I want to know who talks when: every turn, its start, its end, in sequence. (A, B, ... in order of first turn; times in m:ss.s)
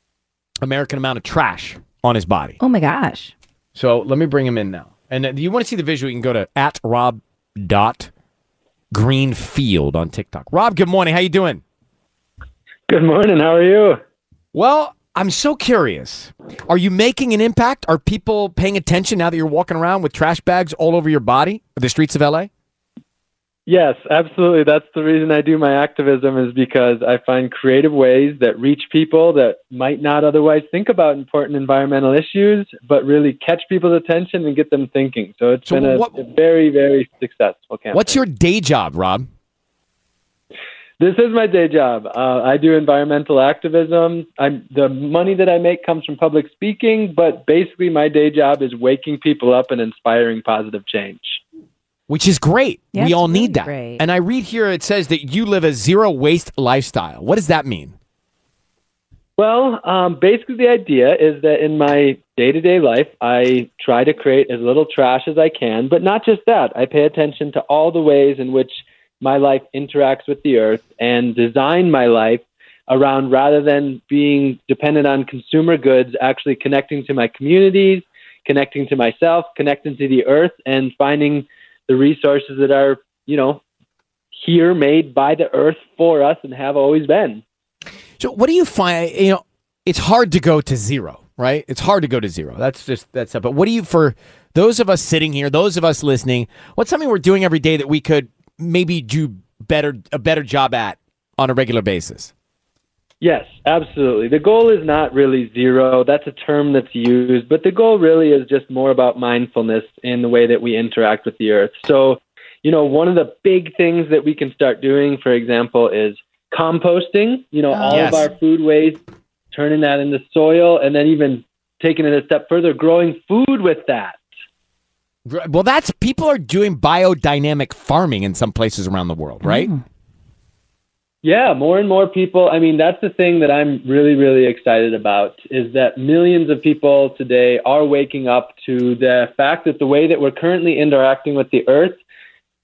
0:00.6-0:02.6 A
0:02.6-0:03.3 B
0:03.7-0:08.1 A
0:08.9-0:11.6 A
0:12.9-0:14.0 C
0:14.5-0:22.5 A
0:23.7-0:38.2 C
0:35.7-0:36.2 A
0:37.9-0:39.3 A
0:41.0-0:51.4 C
0:52.1-0:57.9 A
0:52.9-0:54.0 B
0:59.4-1:23.6 C
1:24.3-1:27.4 C
1:28.2-1:42.3 A
1:43.2-2:04.2 C
1:57.9-1:58.3 A
2:05.2-2:09.7 A
2:09.4-2:09.8 B
2:11.2-2:22.0 C